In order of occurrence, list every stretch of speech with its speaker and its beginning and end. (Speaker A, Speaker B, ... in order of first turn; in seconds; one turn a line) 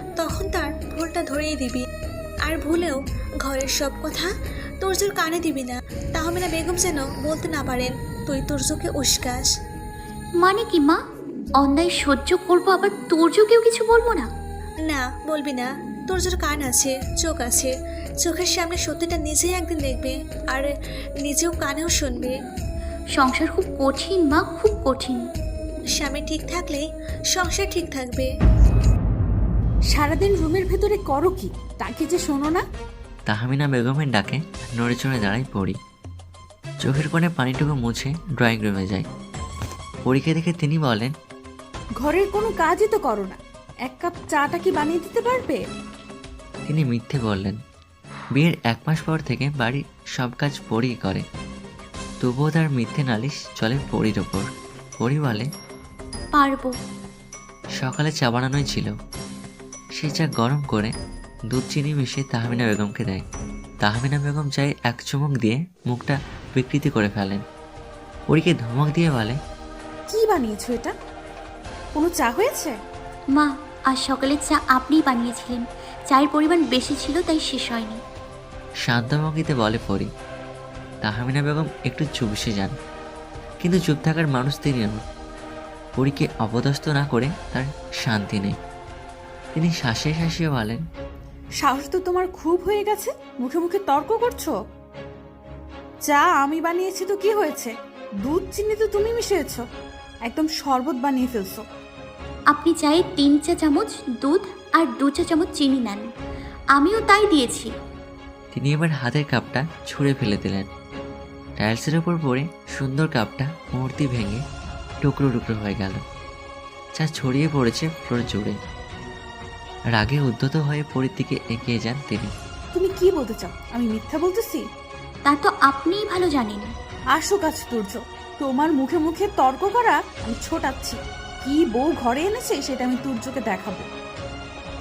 Speaker A: 0.2-1.8
Speaker A: 2.5-4.3
Speaker A: 4.8-9.5
Speaker B: 10.4-11.0
Speaker B: 11.6-14.3
Speaker A: 14.8-20.7
Speaker A: 21.2-22.3
Speaker B: 23.1-25.3
Speaker A: 25.9-28.3
Speaker C: 29.9-32.6
Speaker D: 33.3-35.8
Speaker D: 36.8-39.1
Speaker D: 40.0-41.1
Speaker C: 42.0-45.6
Speaker D: 46.7-47.6
Speaker D: 48.3-51.2
Speaker D: 52.2-54.5
Speaker D: 55.0-55.5
Speaker B: 56.3-56.7
Speaker D: 57.8-58.9
Speaker D: 60.0-60.9
Speaker D: 61.5-63.2
Speaker D: 63.8-67.4
Speaker D: 68.3-69.4
Speaker C: 70.1-70.9
Speaker C: 71.9-72.8
Speaker B: 73.3-78.0
Speaker D: 78.8-80.1
Speaker D: 81.0-82.7
Speaker D: 83.6-85.0
Speaker D: 86.0-88.6
Speaker D: 89.5-90.8
Speaker C: 91.6-94.5
Speaker C: 96.0-97.7
Speaker C: 98.2-99.6
Speaker C: 100.2-101.6
Speaker B: 102.5-106.1
Speaker B: 106.7-107.7
Speaker D: 108.5-110.7
Speaker D: 111.6-114.4
Speaker D: 115.0-116.0
Speaker D: 117.0-118.5
Speaker D: 119.9-122.3
Speaker C: 122.7-124.6
Speaker B: 125.2-126.7
Speaker C: 127.1-133.9